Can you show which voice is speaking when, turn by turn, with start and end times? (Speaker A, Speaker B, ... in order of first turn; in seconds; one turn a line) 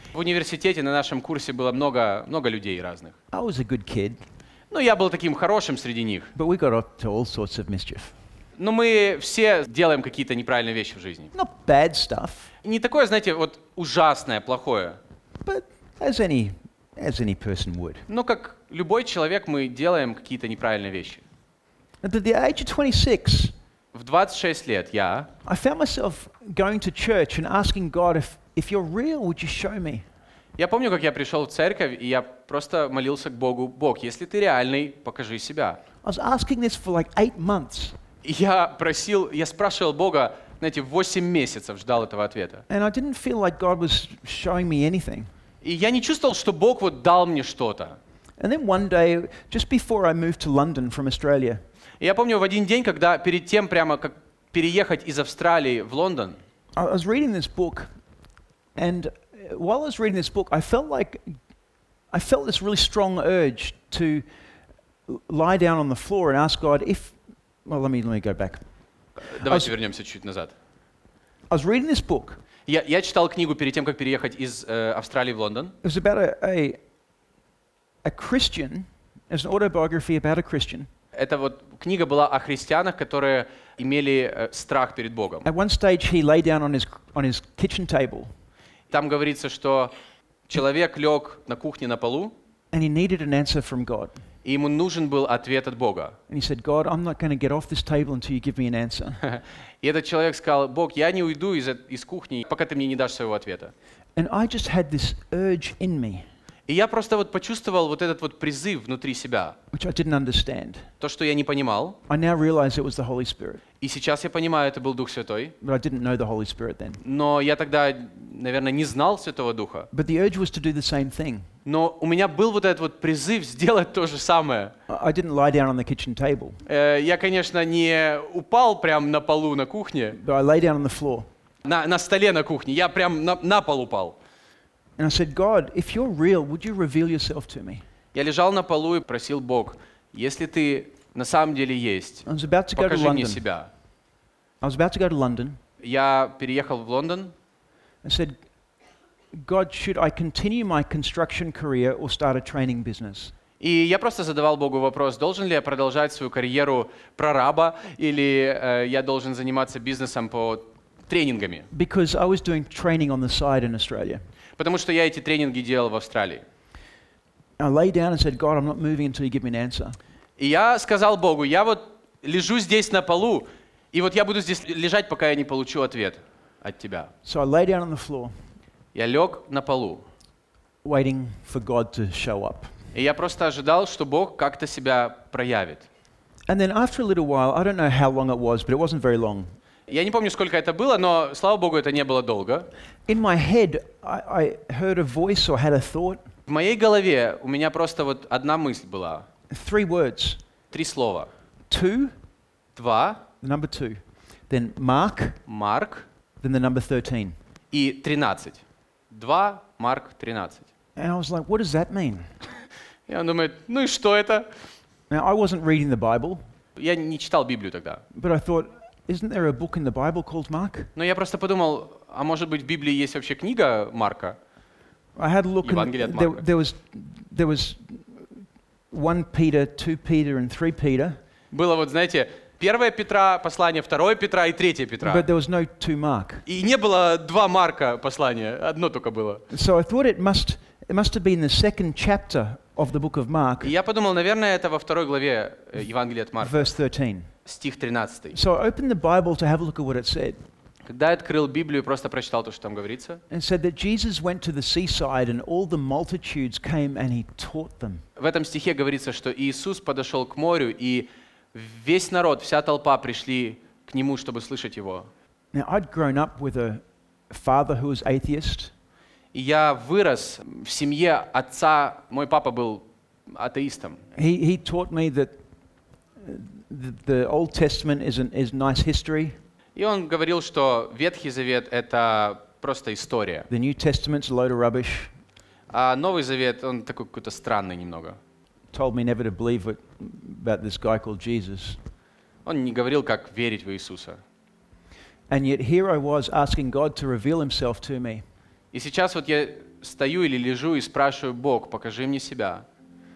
Speaker A: 0.1-3.1
Speaker B: 3.3-4.2
Speaker A: 4.7-6.3
Speaker B: 6.3-8.1
Speaker A: 8.6-11.3
Speaker B: 11.3-12.4
Speaker A: 12.6-15.0
Speaker B: 15.4-18.0
Speaker A: 18.1-21.2
Speaker B: 22.0-23.5
Speaker A: 23.9-25.3
Speaker B: 25.4-30.0
Speaker A: 30.6-35.8
Speaker B: 36.0-38.0
Speaker A: 38.2-42.6
Speaker B: 42.7-45.3
Speaker A: 45.6-48.0
Speaker B: 48.4-51.6
Speaker A: 52.0-56.4
Speaker B: 56.8-57.9
Speaker B: 58.8-61.2
Speaker B: 62.1-64.2
Speaker B: 65.1-67.1
Speaker B: 67.7-68.6
Speaker A: 69.2-70.5
Speaker B: 69.4-69.7
Speaker B: 71.5-72.4
Speaker A: 72.7-75.7
Speaker B: 75.8-76.8
Speaker B: 78.0-80.9
Speaker A: 81.1-85.5
Speaker B: 85.4-88.3
Speaker A: 88.9-89.9
Speaker A: 90.5-92.3
Speaker B: 92.7-94.1
Speaker A: 94.4-96.2
Speaker B: 96.3-99.2
Speaker A: 99.2-103.7
Speaker B: 104.2-106.2
Speaker A: 106.7-109.5
Speaker B: 109.7-110.8
Speaker A: 111.0-112.0
Speaker B: 112.1-113.6
Speaker A: 113.8-115.5
Speaker B: 115.6-117.0
Speaker A: 117.0-119.9
Speaker B: 119.9-121.5
Speaker A: 121.6-124.7
Speaker B: 124.9-126.6
Speaker A: 126.7-130.2
Speaker B: 130.2-131.3
Speaker A: 131.6-134.2
Speaker B: 135.0-137.8
Speaker A: 138.1-143.7
Speaker B: 142.2-143.4
Speaker B: 144.6-145.6
Speaker A: 145.8-147.3
Speaker B: 148.0-148.3
Speaker B: 149.3-153.3
Speaker A: 153.6-161.7
Speaker B: 161.7-164.2
Speaker A: 164.6-166.4
Speaker B: 167.6-170.0
Speaker A: 170.4-177.1
Speaker B: 177.2-178.3
Speaker A: 178.9-180.0
Speaker B: 180.8-182.7
Speaker A: 182.9-185.9
Speaker B: 186.5-189.5
Speaker A: 189.9-192.7
Speaker B: 193.1-196.2
Speaker A: 196.5-199.2
Speaker B: 199.5-200.4
Speaker A: 200.7-201.3
Speaker B: 201.7-202.1
Speaker A: 202.7-203.2
Speaker B: 203.4-205.4
Speaker A: 205.5-206.1
Speaker B: 206.4-207.3
Speaker A: 207.7-210.7
Speaker B: 210.9-212.3
Speaker A: 213.1-214.5
Speaker B: 215.1-216.4
Speaker A: 216.8-218.0
Speaker B: 218.1-220.9
Speaker A: 220.9-224.4
Speaker B: 225.2-228.3
Speaker A: 225.6-226.4
Speaker B: 228.9-231.2
Speaker A: 231.5-235.2
Speaker B: 235.0-236.4
Speaker A: 236.4-239.4
Speaker B: 239.5-243.7
Speaker A: 243.6-246.7
Speaker B: 246.4-247.3
Speaker A: 247.4-248.3
Speaker B: 248.3-250.4
Speaker A: 250.9-253.2
Speaker B: 253.3-258.0
Speaker A: 258.2-265.1
Speaker B: 265.5-268.7
Speaker A: 269.3-274.0
Speaker B: 274.1-275.3
Speaker B: 276.2-279.4
Speaker A: 279.8-283.5
Speaker B: 283.5-285.1
Speaker A: 285.7-288.2
Speaker B: 288.7-291.8
Speaker A: 292.4-294.2
Speaker B: 295.3-298.2
Speaker A: 298.7-302.6